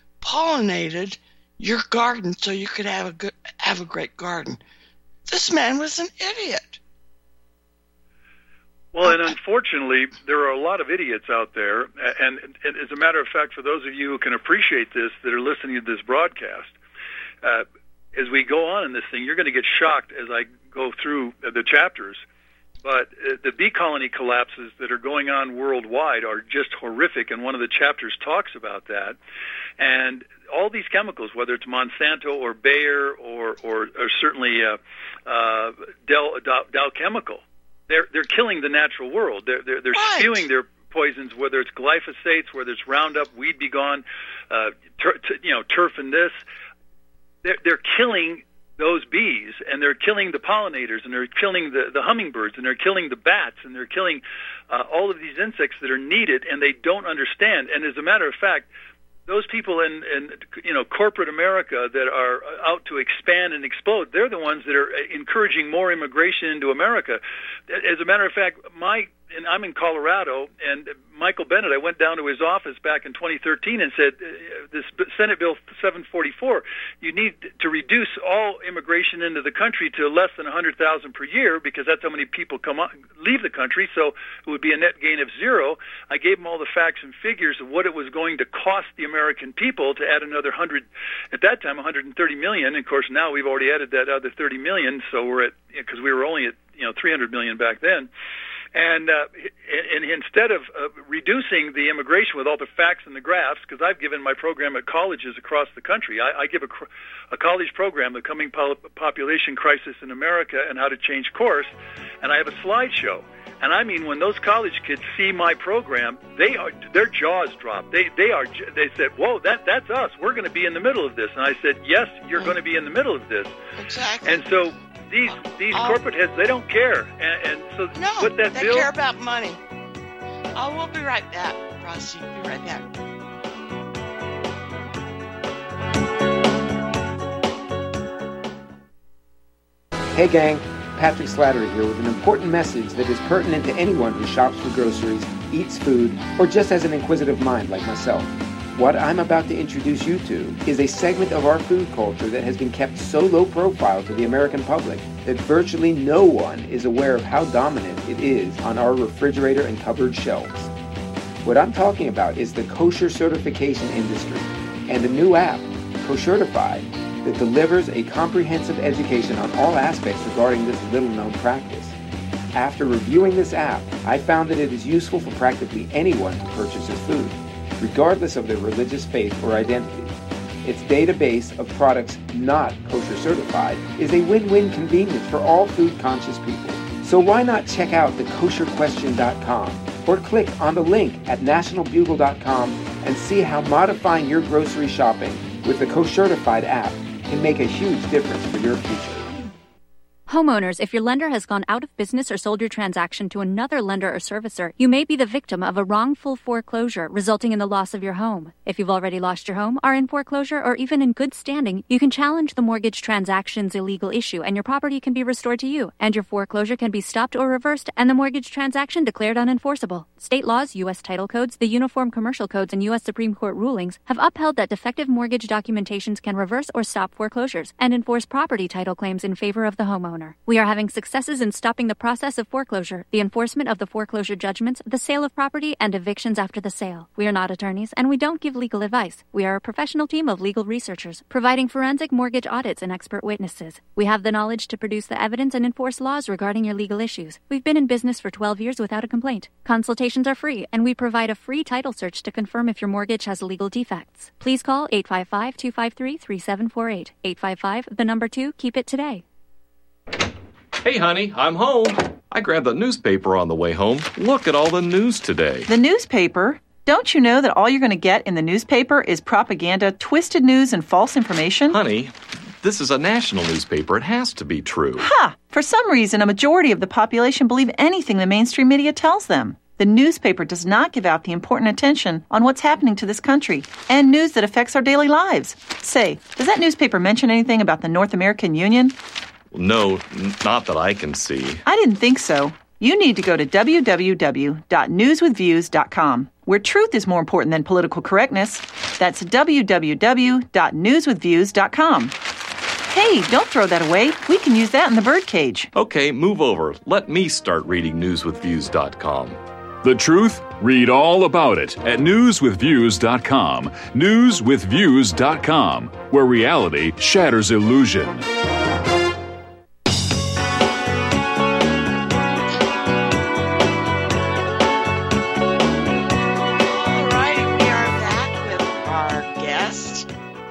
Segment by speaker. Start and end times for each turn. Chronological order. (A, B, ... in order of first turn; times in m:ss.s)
0:00.2-0:04.6 A
0:05.3-0:06.8 A
0:08.9-0:16.7 B
0:17.4-0:22.2 B
0:22.8-0:29.2 B
0:29.8-0:46.4 B
0:39.9-0:40.5 A
0:47.4-0:58.7 B
0:59.3-1:38.1 B
1:38.7-1:51.7 B
1:52.2-2:03.5 B
2:03.8-2:04.5 A
2:04.2-2:08.9 B
2:05.3-2:06.0 A
2:07.9-2:09.6 A
2:10.5-2:12.9 A
2:20.1-2:40.7 C
2:41.4-2:52.0 C
2:52.5-3:19.3 C
3:20.3-4:19.2 D
4:20.8-4:25.7 E
4:25.7-4:31.8 F
4:31.7-4:35.0 E
4:35.0-4:48.9 F
4:49.5-4:51.6 E
4:51.6-5:02.2 F
5:02.9-5:05.7 F
5:05.7-5:09.4 E
5:09.8-5:18.2 G
5:26.6-5:30.1 A